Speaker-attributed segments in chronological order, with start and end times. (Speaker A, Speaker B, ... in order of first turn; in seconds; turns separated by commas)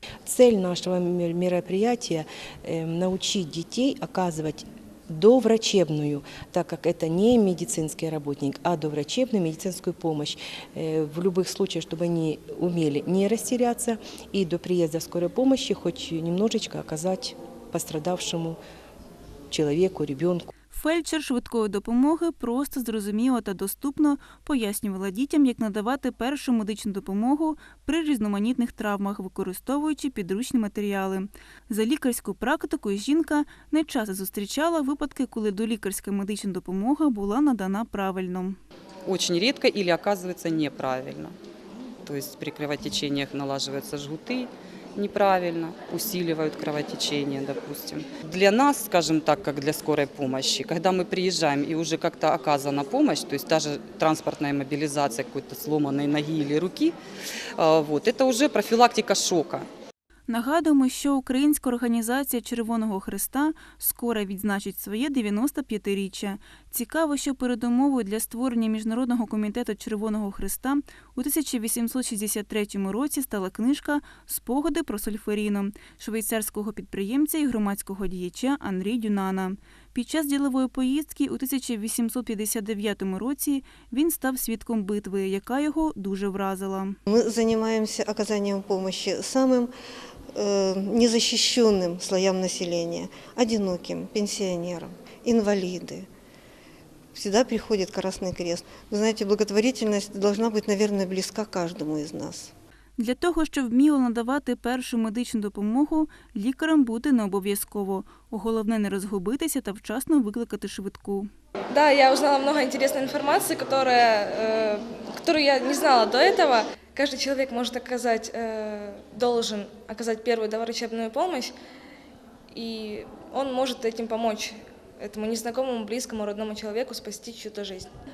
Speaker A: 0.2-18.6, Speaker A: 19.5-20.5, Speaker B: 20.7-38.6, Speaker C: 39.0-41.3, Speaker C: 42.0-57.0, Speaker C: 57.6-59.7, Speaker B: 60.3-87.0, Speaker D: 87.1-89.7, Speaker D: 90.3-96.1, Speaker D: 97.1-102.5, Speaker B: 103.0-111.3, Speaker E: 111.7-121.5, Speaker E: 122.5-127.9